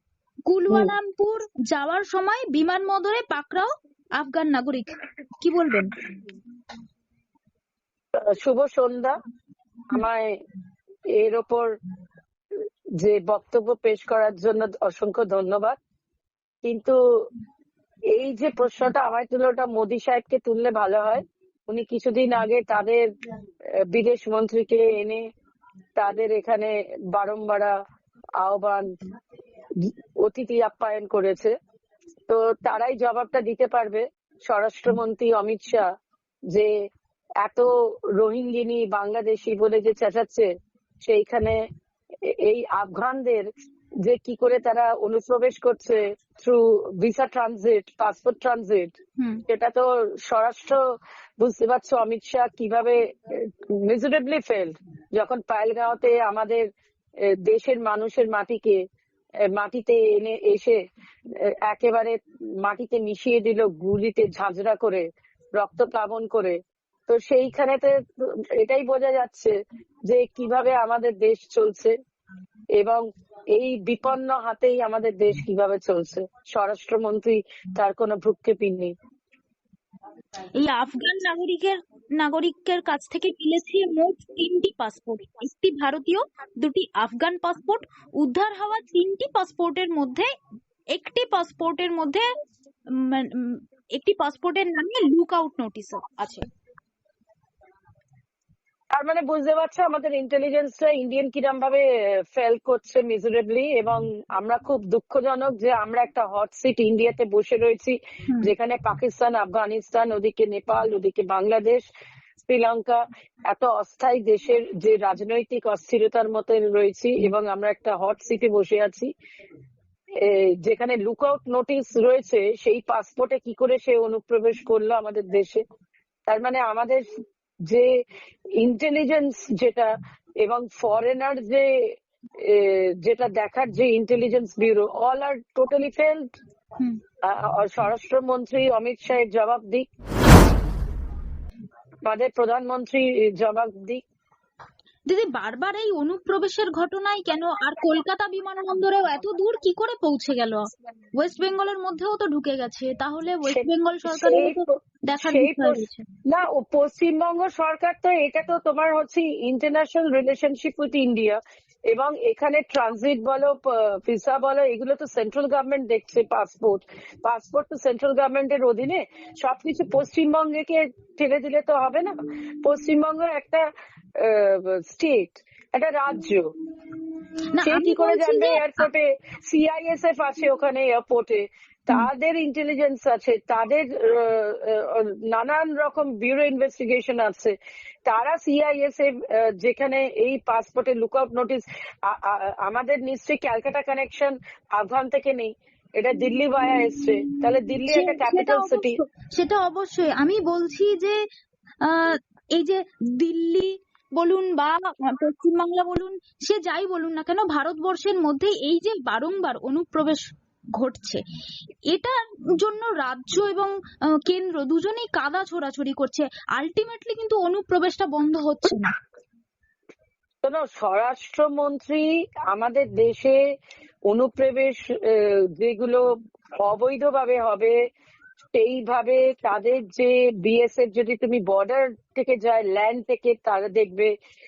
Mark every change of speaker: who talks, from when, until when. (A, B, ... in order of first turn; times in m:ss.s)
0:00.5-0:06.0 A
0:08.2-0:09.1 B
0:09.9-0:10.3 B
0:11.1-0:11.7 B
0:13.0-0:15.8 B
0:16.6-0:17.2 B
0:18.1-0:23.1 B
0:23.8-0:25.2 B
0:26.0-0:27.8 B
0:28.4-0:28.9 B
0:29.8-0:31.5 B
0:32.3-0:35.9 B
0:37.4-0:40.5 B
0:41.0-0:41.6 B
0:42.2-0:43.5 B
0:44.0-0:48.9 B
0:49.2-0:49.4 A
0:49.5-0:50.8 B
0:51.4-0:56.7 B
0:57.2-0:58.8 B
0:59.5-1:00.8 B
1:01.3-1:06.6 B
1:07.1-1:09.5 B
1:10.1-1:11.9 B
1:12.8-1:13.0 B
1:13.5-1:18.9 B
1:20.6-1:30.3 A
1:30.9-1:32.3 A
1:32.9-1:36.5 A
1:38.9-1:51.8 B
1:52.4-1:59.1 B
2:00.2-2:05.6 B
2:06.3-2:07.1 B
2:08.6-2:16.3 B
2:17.2-2:19.9 B
2:22.1-2:24.0 B
2:25.1-2:36.1 A
2:33.5-2:34.6 B
2:35.2-2:52.1 B
2:52.6-2:56.5 B
2:57.5-2:58.8 A
2:57.6-3:07.5 B
3:08.1-3:19.0 B
3:17.8-3:21.2 A
3:21.8-3:31.2 A
3:31.9-3:39.0 A
3:40.4-3:43.4 B
3:44.1-3:46.1 B
3:46.6-3:47.8 B
3:48.6-3:54.1 B